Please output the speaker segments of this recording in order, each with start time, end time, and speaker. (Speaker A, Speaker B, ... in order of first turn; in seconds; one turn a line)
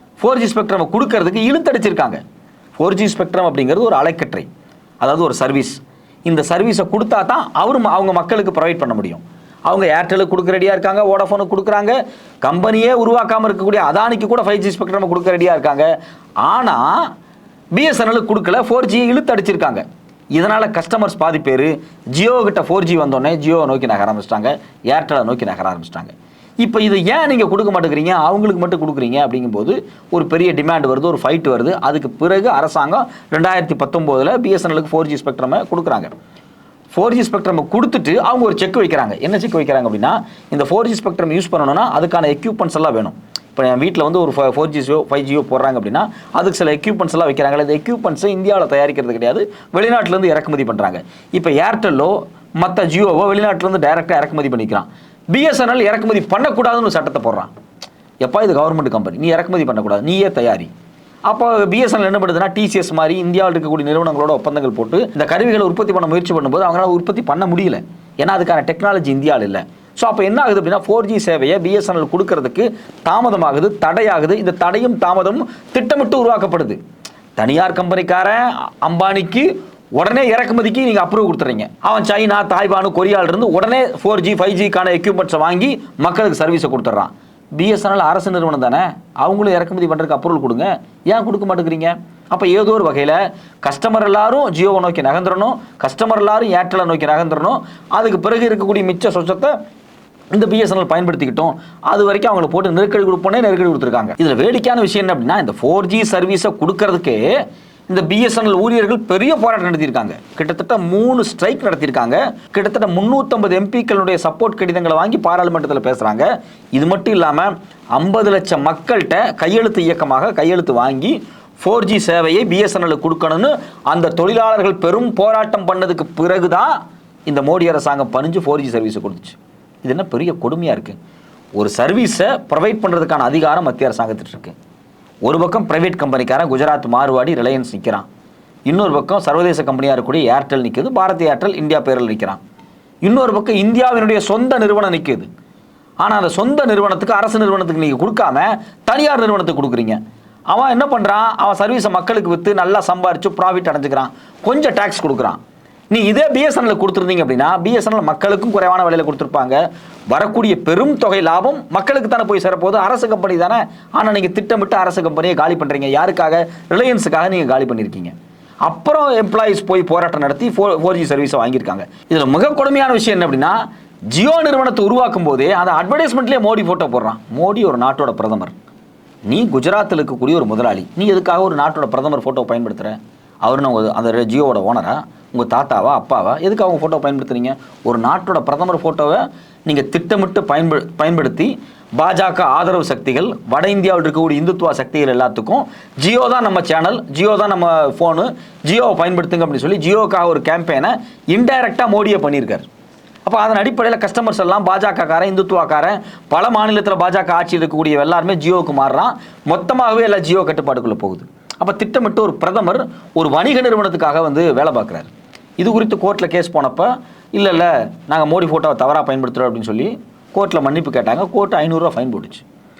Speaker A: 0.2-2.2
Speaker A: 2.8-4.5
Speaker A: 5.0-15.9
Speaker A: 16.4-17.1
Speaker A: 17.7-19.8
Speaker A: 20.3-36.1
Speaker A: 36.9-57.5
Speaker A: 58.2-60.7
Speaker A: 61.2-76.8
Speaker A: 77.3-99.5
Speaker A: 100.3-107.3
Speaker A: 107.9-126.8
Speaker A: 127.2-131.0
Speaker A: 131.6-134.5
Speaker A: 135.2-138.1
Speaker A: 138.7-142.4
Speaker A: 143.0-145.3
Speaker A: 146.0-155.4
Speaker A: 155.9-168.1
Speaker A: 168.6-178.5
Speaker A: 179.2-202.7
Speaker A: 203.2-222.4